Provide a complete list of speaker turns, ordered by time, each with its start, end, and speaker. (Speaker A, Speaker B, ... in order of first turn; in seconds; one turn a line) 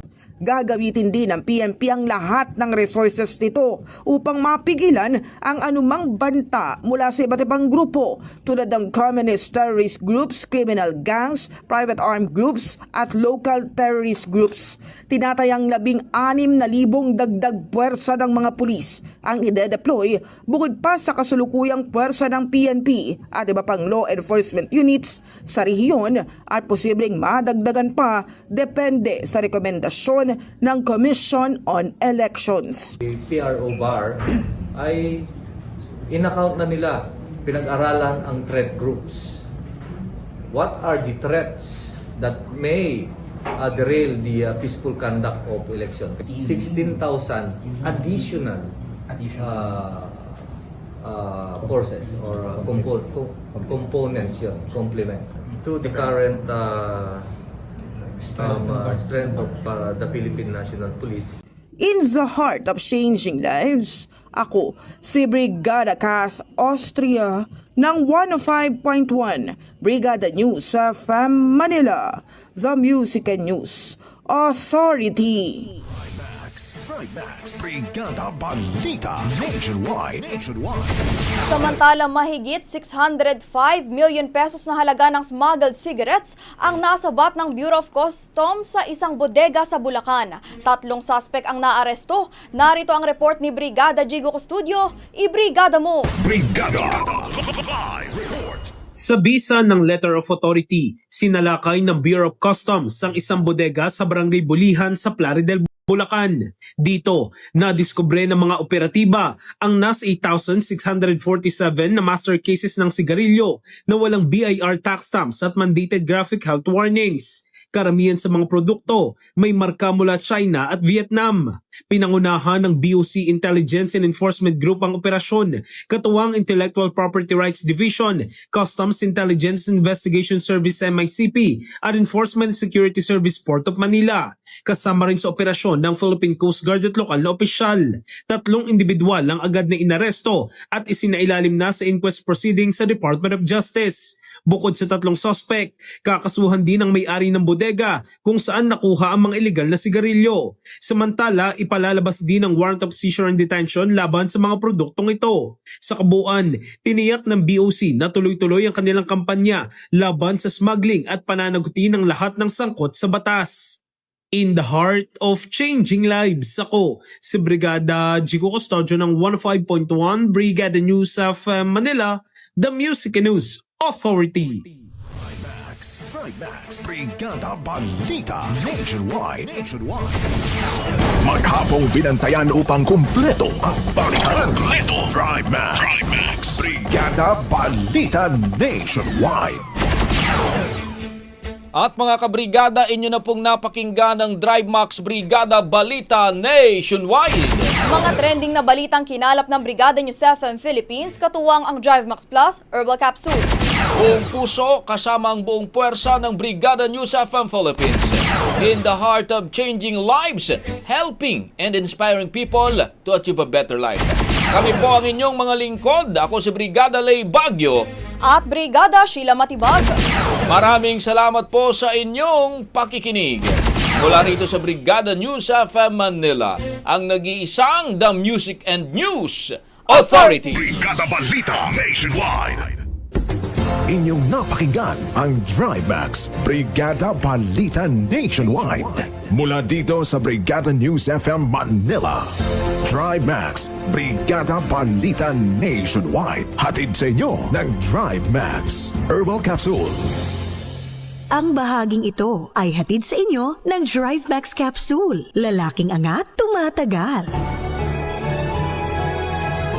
Speaker A: 0.4-33.0
Speaker B: 33.0-35.3
Speaker B: 36.1-39.5
Speaker B: 40.5-48.7
Speaker B: 49.3-50.3
Speaker B: 51.0-57.3
Speaker B: 58.3-61.4
Speaker A: 61.8-75.7
Speaker C: 75.9-81.4
Speaker D: 81.4-96.1
Speaker C: 96.3-97.1
Speaker E: 96.3-97.0
Speaker E: 97.9-98.3
Speaker F: 99.0-163.8
Speaker F: 164.3-174.7
Speaker C: 175.1-180.3
Speaker C: 181.2-189.7
Speaker G: 191.7-197.7
Speaker D: 197.9-203.5
Speaker G: 204.0-217.8
Speaker D: 218.2-220.0
Speaker G: 220.5-230.8
Speaker D: 229.9-230.7
Speaker E: 230.9-232.7
Speaker C: 231.1-231.7
Speaker C: 233.9-250.1
Speaker H: 251.3-257.3